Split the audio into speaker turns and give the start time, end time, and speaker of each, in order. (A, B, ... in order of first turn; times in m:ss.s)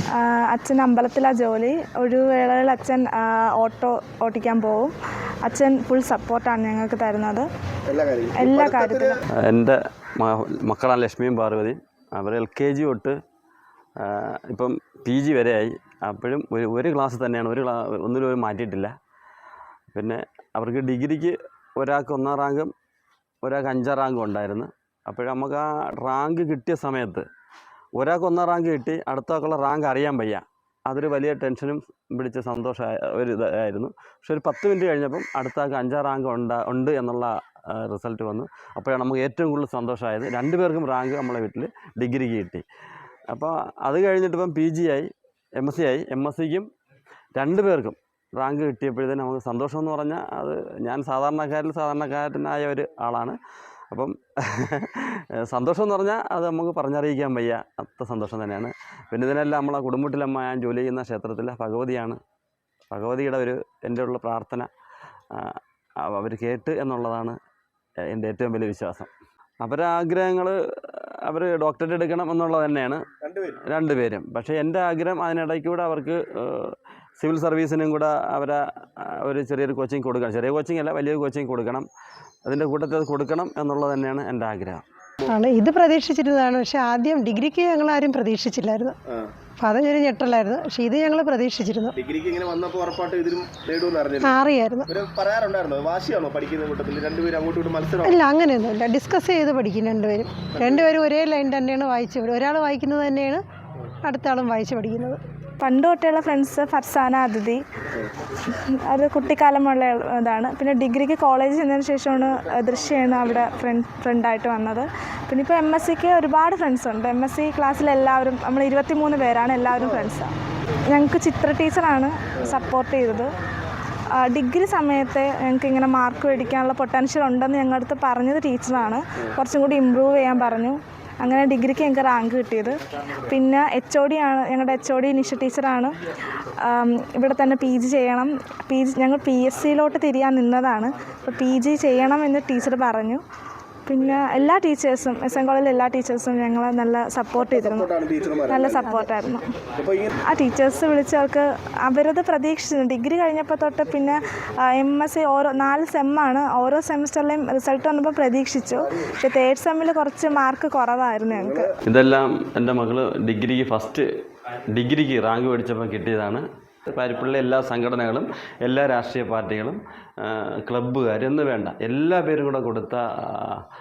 0:00.1-0:07.5 A
0:07.9-0:09.2 B
0:08.4-0:09.2 A
0:09.4-0:13.2 C
0:14.0-0:18.9 C
0:19.9-0:22.7 C
0:23.4-0:27.2 C
0:28.0-0:42.6 C
0:43.3-0:46.7 C
0:47.3-0:53.4 C
0:53.9-1:02.2 C
1:02.9-1:04.7 C
1:05.3-1:07.4 C
1:08.0-1:09.1 C
1:09.6-1:13.0 C
1:13.2-1:13.6 B
1:13.7-1:21.9 C
1:22.4-1:24.8 C
1:25.2-1:28.9 D
1:29.6-1:31.9 D
1:32.0-1:34.4 B
1:34.2-1:34.9 D
1:34.9-1:38.2 B
1:38.0-1:43.4 D
1:44.0-1:45.2 D
1:45.6-1:47.6 A
1:48.5-2:00.3 A
2:00.9-2:03.3 A
2:04.2-2:15.9 A
2:16.6-2:23.2 A
2:23.8-2:27.9 A
2:27.4-2:28.9 B
2:28.5-2:29.5 A
2:29.8-2:30.1 B
2:30.3-2:41.7 A
2:38.8-2:39.1 B
2:41.3-2:41.7 B
2:41.9-2:44.0 C
2:44.7-2:53.6 C